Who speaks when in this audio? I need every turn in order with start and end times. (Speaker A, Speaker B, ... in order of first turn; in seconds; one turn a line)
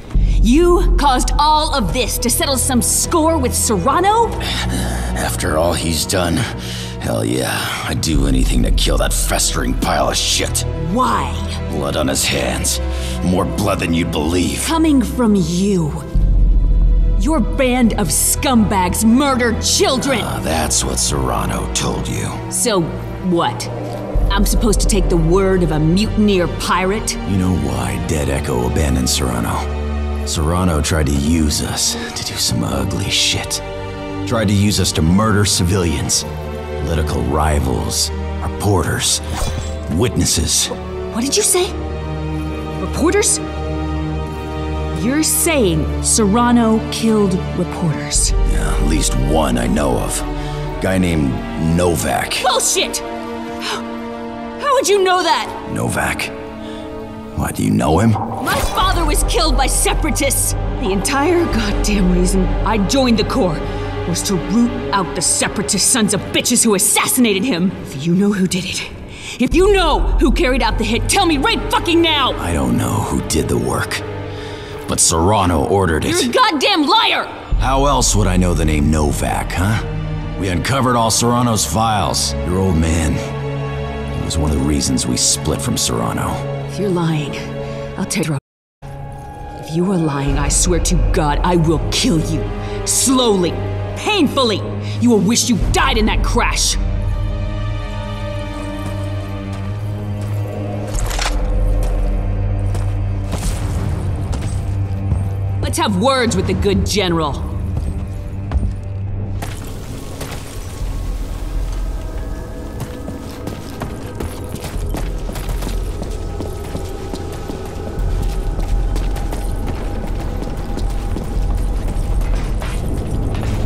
Speaker A: 0.4-4.4
Speaker B: 4.5-10.7
Speaker A: 10.8-11.6
Speaker B: 11.7-14.7
Speaker A: 14.6-16.1
Speaker A: 17.2-20.3
Speaker B: 20.1-22.4
Speaker A: 22.5-23.7
Speaker A: 24.3-27.2
Speaker B: 27.2-29.7
Speaker B: 30.2-33.6
Speaker B: 34.2-36.2
Speaker B: 36.8-39.2
Speaker B: 39.9-40.7
Speaker A: 41.1-41.7
Speaker A: 42.8-43.4
Speaker A: 44.9-48.4
Speaker B: 48.5-50.3
Speaker B: 50.8-52.5
Speaker A: 52.4-53.0
Speaker A: 54.6-55.6
Speaker B: 55.6-56.3
Speaker B: 57.3-58.3
Speaker A: 58.4-72.4
Speaker B: 72.4-74.0
Speaker B: 74.9-76.3
Speaker A: 76.0-77.3
Speaker B: 77.6-83.2
Speaker B: 84.1-86.4
Speaker A: 86.7-88.4
Speaker A: 89.6-96.8
Speaker A: 105.6-107.5